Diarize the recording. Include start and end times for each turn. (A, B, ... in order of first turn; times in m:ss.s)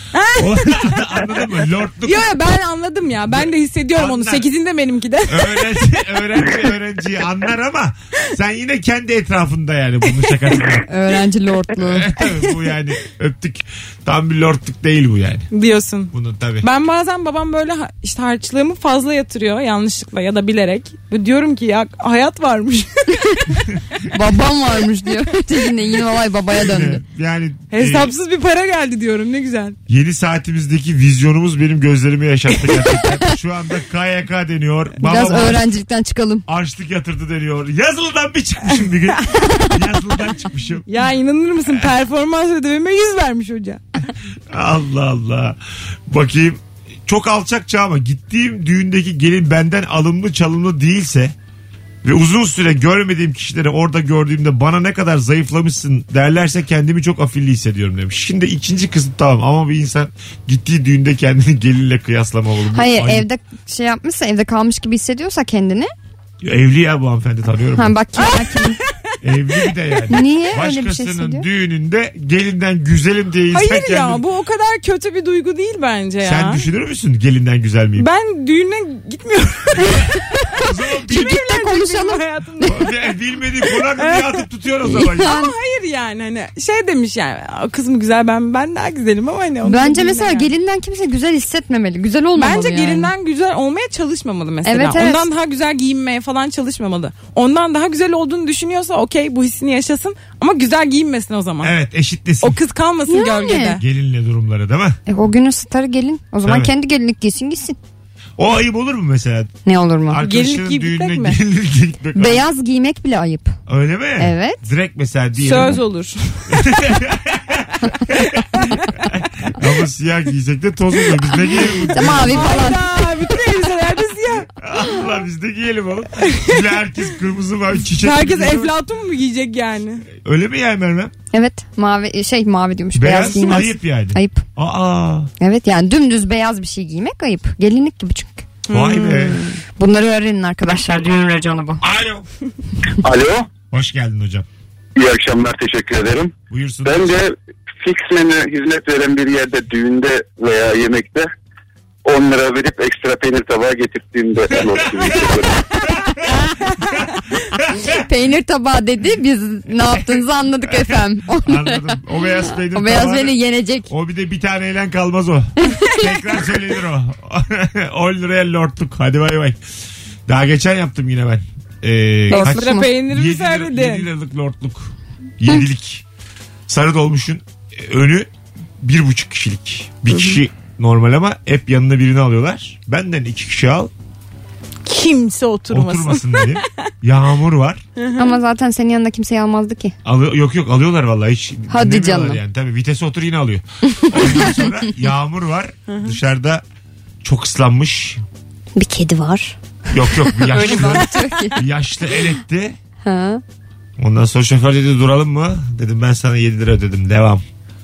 0:00.1-0:01.1 A
0:00.4-0:02.3 B
0:02.0-0:05.6 A
0:03.3-0:04.5 B
0:05.3-0:10.9 B
0:10.9-0:12.1 C
0:11.8-0:15.5 B
0:15.5-0:23.5 A
0:16.1-0:16.7 B
0:24.1-0:27.0 C
0:26.6-0:28.1 B
0:27.7-0:29.8 A
0:29.9-0:35.7 B
0:35.0-0:36.5 C
0:36.5-0:40.9 B
0:40.9-0:43.8 A
0:41.7-0:41.9 B
0:44.5-0:45.6 B
0:46.1-0:51.3 B
0:52.0-1:03.2 B
1:02.7-1:05.9 C
1:06.4-1:08.0 B
1:07.8-1:08.8 C
1:08.2-1:08.7 A
1:09.2-1:14.2 B
1:10.1-1:11.5 C
1:13.5-1:16.6 A
1:16.2-1:18.1 B
1:18.0-1:20.4 A
1:20.5-1:21.3 B
1:21.1-1:22.7 C
1:21.1-1:22.9 A
1:22.6-1:25.4 B
1:24.0-1:24.2 A
1:24.9-1:25.5 C
1:25.2-1:30.5 A
1:29.6-1:33.1 C
1:32.4-1:41.8 A
1:34.6-1:35.2 C
1:41.6-1:42.6 B
1:42.4-1:43.8 A
1:43.1-1:43.8 C
1:43.8-1:45.0 B
1:45.1-1:47.8 C
1:46.4-1:46.7 B
1:48.4-1:49.5 B
1:49.6-1:50.2 C
1:50.1-1:52.4 B
1:50.2-1:51.4 A
1:52.2-1:53.6 C
1:53.7-1:55.8 B
1:54.2-1:54.7 C
1:55.4-1:56.6 A
1:56.5-2:02.8 B
1:57.9-1:59.1 A
2:01.5-2:04.5 A
2:01.9-2:02.9 C
2:04.5-2:08.7 B
2:08.0-2:10.0 A
2:10.2-2:11.1 B
2:11.3-2:14.5 C
2:12.9-2:15.3 B
2:15.4-2:21.8 C
2:18.7-2:19.4 A
2:18.7-2:19.5 B
2:21.8-2:22.2 B
2:23.0-2:23.5 D
2:23.7-2:24.4 B
2:25.0-2:31.3 D
2:26.5-2:27.2 B
2:32.0-2:35.6 D
2:34.5-2:38.0 B
2:37.9-2:43.9 C
2:41.4-2:43.3 B
2:43.9-2:49.6 B
2:45.7-2:45.9 C
2:50.3-2:56.0 B
2:52.3-2:52.9 C
2:52.3-2:54.1 A
2:56.7-2:58.3 B
2:58.8-3:03.9 B
3:04.8-3:06.6 A
3:05.7-3:07.8 B
3:08.0-3:08.3 A
3:08.2-3:09.9 C
3:10.0-3:16.6 B
3:11.7-3:12.4 C
3:13.9-3:14.7 C
3:15.9-3:16.1 A
3:17.2-3:18.2 B
3:18.8-3:21.6 C
3:19.9-3:22.8 B
3:20.8-3:21.2 A
3:23.0-3:23.4 C
3:24.0-3:27.4 B